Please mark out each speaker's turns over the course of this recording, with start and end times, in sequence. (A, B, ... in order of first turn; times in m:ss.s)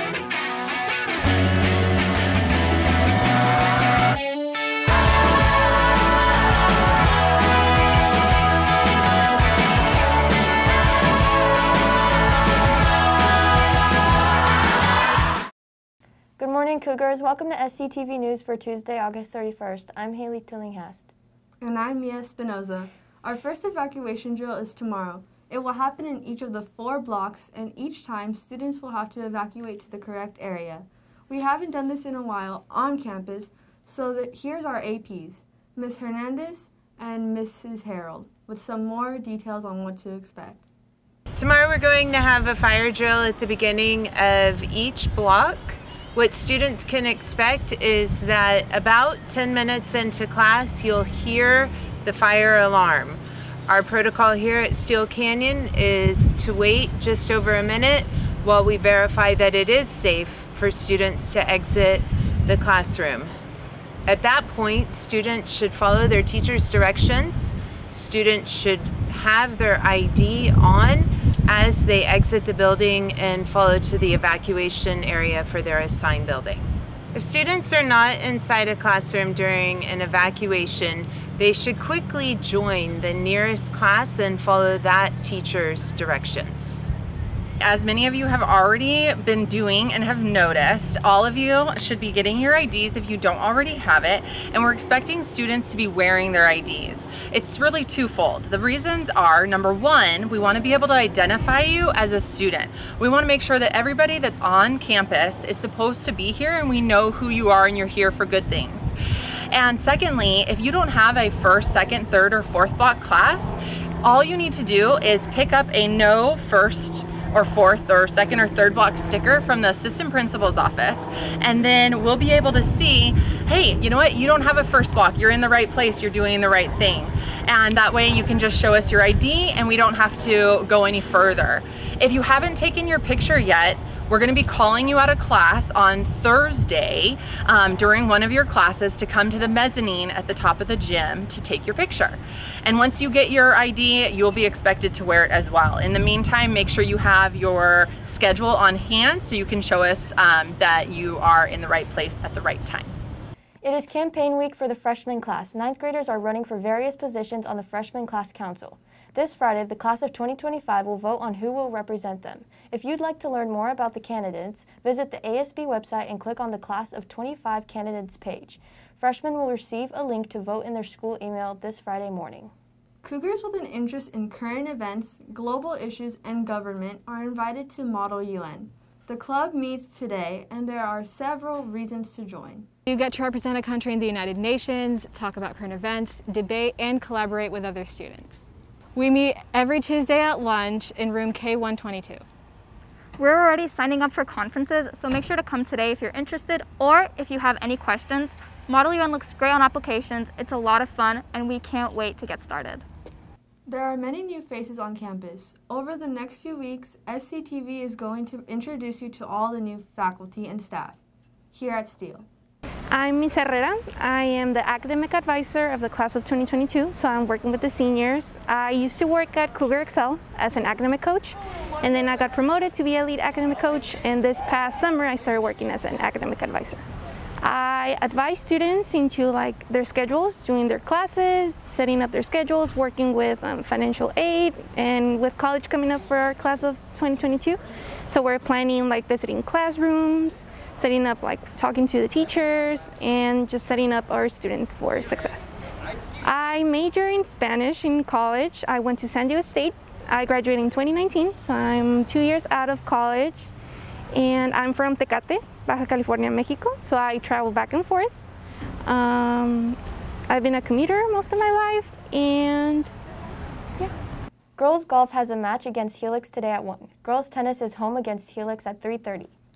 0:16.4-0:21.1 A
0:21.6-0:40.6 B
0:41.4-1:03.3 C
1:04.0-1:26.8 C
1:27.6-1:48.9 D
1:49.5-2:32.9 D
2:33.6-2:52.5 A
2:53.0-3:02.7 B
3:02.9-3:12.2 E
3:13.2-3:22.8 F
3:23.6-3:31.0 B
3:31.5-3:32.2 B
3:32.9-3:46.8 G
3:47.4-4:05.6 G
4:06.2-4:13.5 G
4:14.1-4:18.1 G
4:18.8-4:19.8 G
4:20.3-4:22.9 G
4:24.6-4:29.3 A